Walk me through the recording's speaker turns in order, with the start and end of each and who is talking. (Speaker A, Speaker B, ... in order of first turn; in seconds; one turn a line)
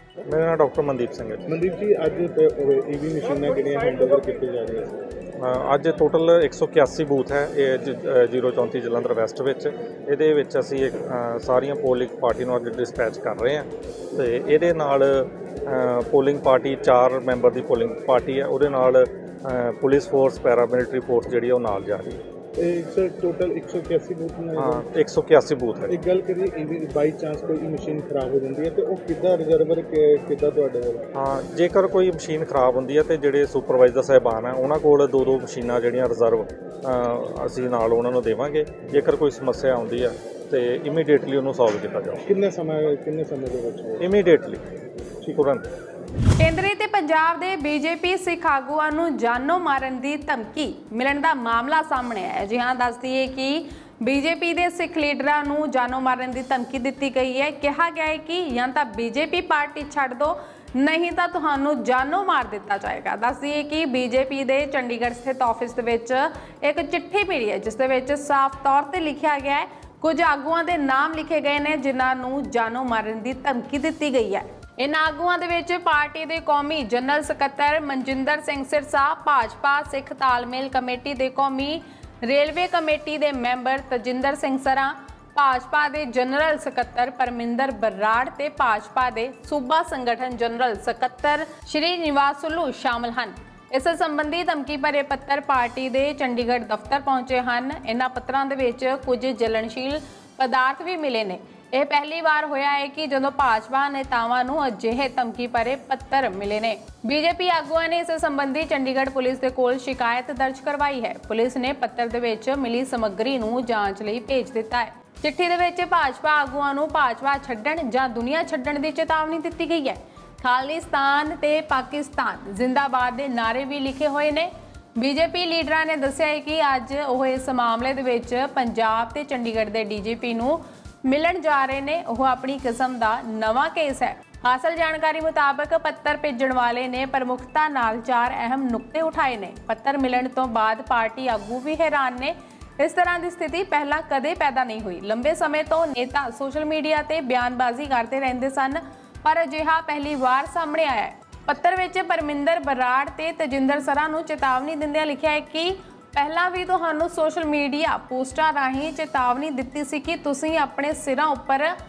Speaker A: 0.3-1.4
Speaker B: 1.5-5.0
Speaker A: 5.4-22.2
Speaker B: 22.6-24.8
Speaker A: 24.6-25.9
Speaker B: 25.9-31.1
Speaker A: 31.1-42.2
Speaker B: 42.2-44.0
Speaker A: 44.0-44.6
Speaker A: 45.3-45.7
Speaker C: 46.4-161.7